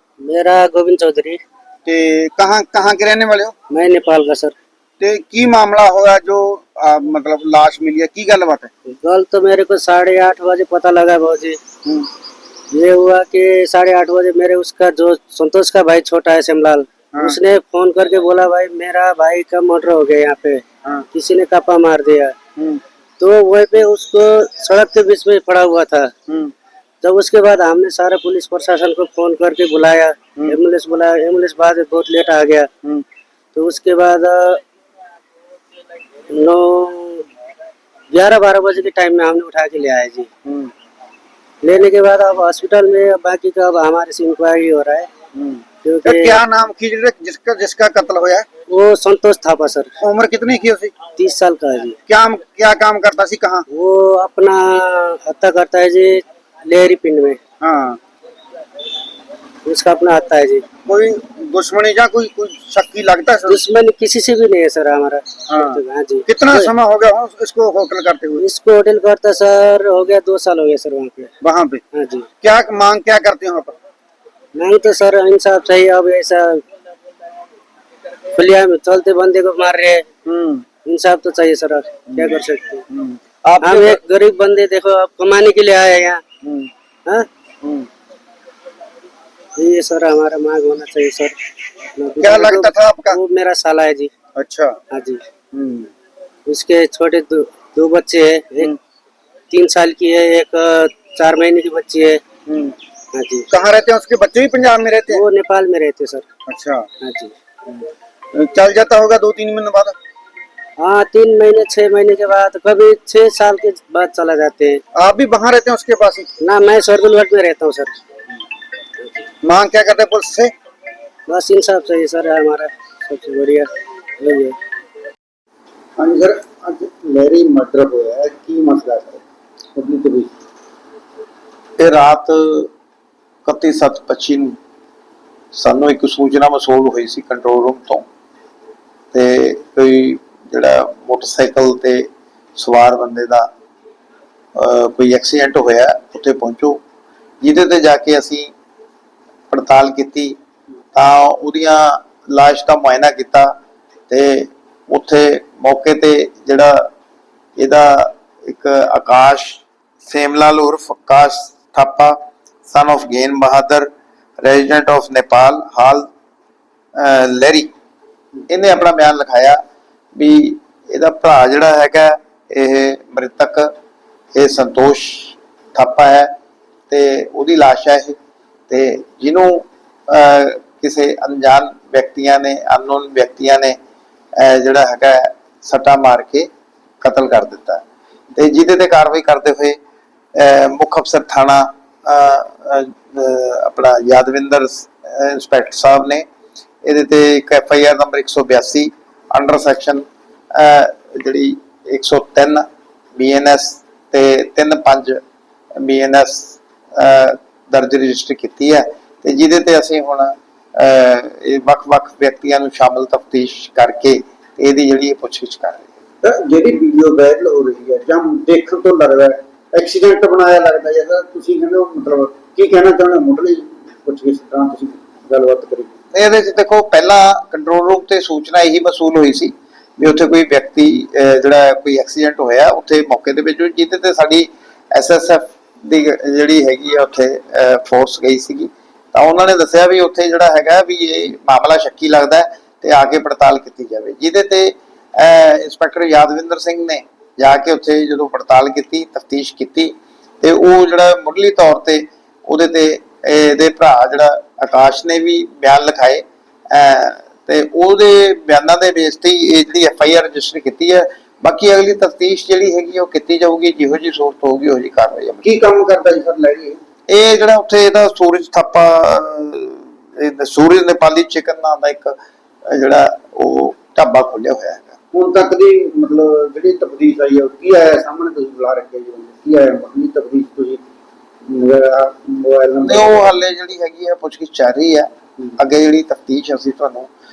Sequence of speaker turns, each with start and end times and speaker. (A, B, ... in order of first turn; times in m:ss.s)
0:00.2-0:01.4 A
0:01.9-0:03.5 B
0:03.7-0:04.6 A
0:05.0-0:08.7 B
0:09.0-0:11.6 A
0:12.7-0:20.6 A
0:21.1-0:22.4 A
0:23.2-0:26.1 A
0:26.3-0:26.5 B
0:27.0-0:32.7 A
0:33.6-0:34.6 A
0:36.3-0:37.3 A
0:38.1-0:40.3 A
0:40.4-0:40.7 B
0:41.6-0:45.1 A
0:45.3-0:48.5 B
0:45.8-0:46.4 A
0:48.7-0:49.9 A
0:50.0-0:50.9 B
0:51.2-0:52.0 A
0:52.1-0:53.7 B
0:53.7-0:57.4 A
0:57.6-0:58.0 B
0:59.6-1:00.6 A
1:00.8-1:03.6 B
1:03.5-1:06.7 A
1:05.5-1:08.4 B
1:08.4-1:11.3 A
1:11.4-1:11.8 B
1:11.9-1:12.3 A
1:12.4-1:13.7 B
1:14.6-1:16.6 A
1:18.3-1:20.0 A
1:20.2-1:20.6 B
1:20.8-1:22.8 A
1:22.1-1:24.0 B
1:23.6-1:26.2 A
1:26.4-1:26.7 B
1:27.6-1:27.9 B
1:29.6-1:31.3 A
1:32.0-1:34.1 A
1:32.2-1:33.2 B
1:34.4-1:34.8 B
1:34.9-1:35.2 A
1:35.5-1:35.9 B
1:36.5-1:38.7 A
1:39.5-1:42.2 A
1:42.5-1:42.8 B
1:43.1-1:43.5 A
1:43.5-1:45.2 B
1:45.1-1:46.2 A
1:46.5-1:46.9 B
1:47.0-1:47.3 A
1:48.3-1:50.0 B
1:50.8-1:54.8 A
1:54.9-1:56.3 B
1:56.4-1:57.9 A
1:59.0-1:59.2 A
1:59.4-2:00.5 B
2:01.3-2:04.6 A
2:06.0-2:09.2 B
2:09.8-2:10.3 B
2:11.8-2:12.7 C
2:13.4-2:14.5 C
2:15.5-2:18.0 C
2:19.1-2:23.5 C
2:24.6-2:26.8 C
2:27.4-2:28.5 C
2:29.5-2:30.4 C
2:30.9-2:33.5 C
2:34.1-2:36.9 C
2:37.6-2:46.1 C
2:47.0-2:47.7 C
2:48.5-2:49.6 C
2:50.2-2:53.7 C
2:54.3-2:56.3 C
2:56.9-2:58.2 C
2:58.7-3:03.8 C
3:04.4-3:06.5 C
3:07.0-3:07.8 C
3:08.3-3:09.8 C
3:10.4-3:16.2 C
3:16.8-3:25.2 C
3:25.8-3:35.8 C
3:36.2-3:45.9 B
3:46.1-4:25.4 C
4:25.4-4:26.8 B
4:27.1-4:35.0 C
4:35.1-4:40.8 B
4:41.5-4:43.3 B
4:42.8-4:47.1 C